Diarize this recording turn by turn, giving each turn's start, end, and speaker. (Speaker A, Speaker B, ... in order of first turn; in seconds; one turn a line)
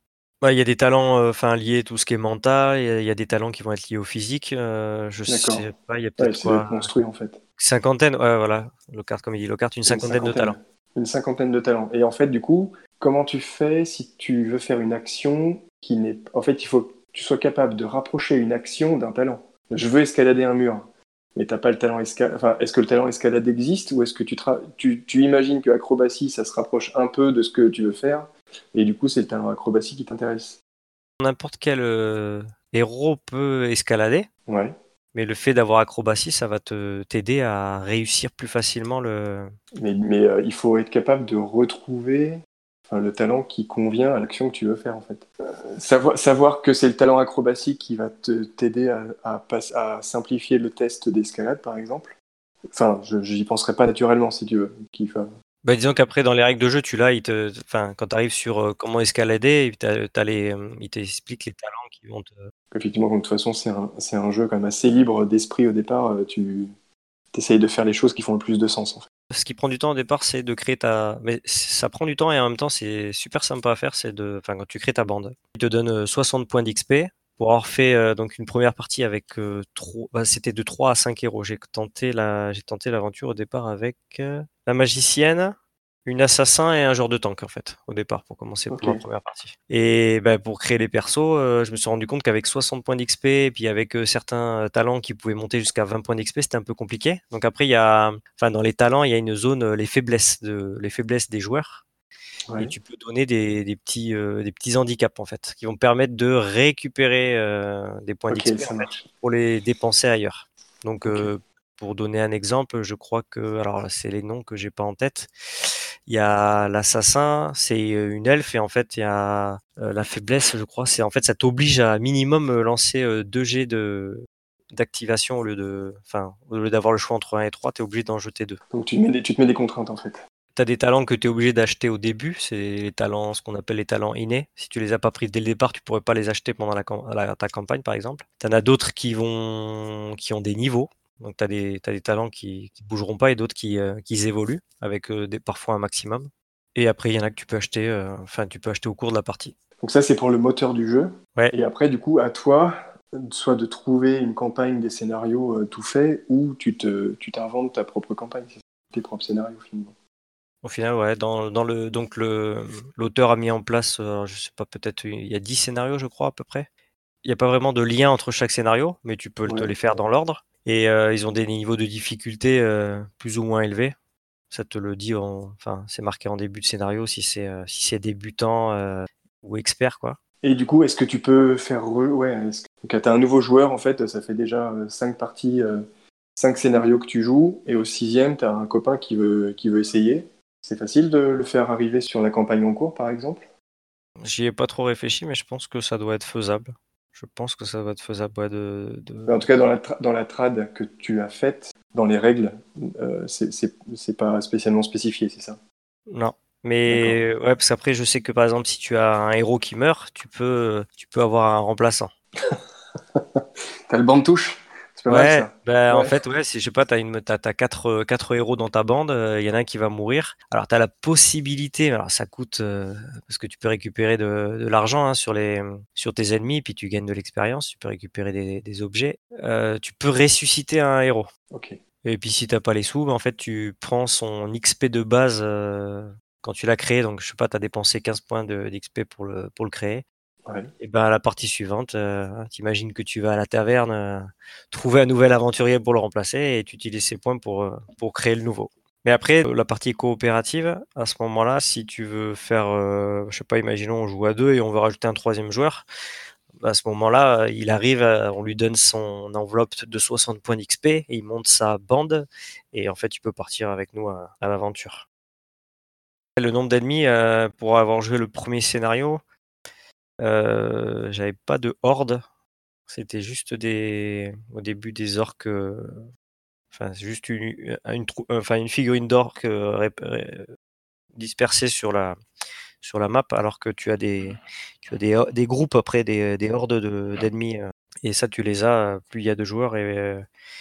Speaker A: 0.4-6.9
Speaker B: 5.3-5.7
Speaker B: 6.2-7.4
Speaker A: 7.6-10.6
Speaker B: 9.9-30.6
Speaker A: 31.2-34.3
Speaker B: 34.5-34.7
Speaker A: 35.1-39.5
Speaker B: 39.8-52.2
Speaker B: 52.7-55.3
Speaker A: 55.6-62.5
Speaker B: 62.7-66.7
Speaker B: 67.3-69.1
Speaker A: 69.3-85.5
Speaker A: 86.1-101.8
Speaker B: 88.7-89.0
Speaker B: 102.5-102.7
Speaker A: 102.6-115.3
Speaker B: 108.3-109.0
Speaker B: 111.0-111.3
Speaker A: 116.1-128.6
Speaker B: 128.7-130.2
Speaker A: 130.6-149.6
Speaker B: 149.8-159.9
Speaker A: 160.6-166.7
Speaker A: 167.2-173.9
Speaker B: 169.5-169.7
Speaker A: 174.5-180.2
Speaker B: 180.4-185.8
Speaker B: 186.4-193.5
Speaker A: 194.2-199.4
Speaker B: 199.3-205.6
Speaker A: 206.1-212.1
Speaker B: 206.9-207.2
Speaker B: 213.2-216.1
Speaker A: 215.1-231.3
Speaker B: 231.5-231.8
Speaker A: 232.0-240.0
Speaker B: 240.5-240.7
Speaker A: 240.8-255.8
Speaker A: 256.6-265.1
Speaker A: 266.4-269.2
Speaker A: 270.2-272.2
Speaker A: 272.9-276.1
Speaker A: 276.7-280.5
Speaker A: 281.1-282.2
Speaker A: 282.8-290.2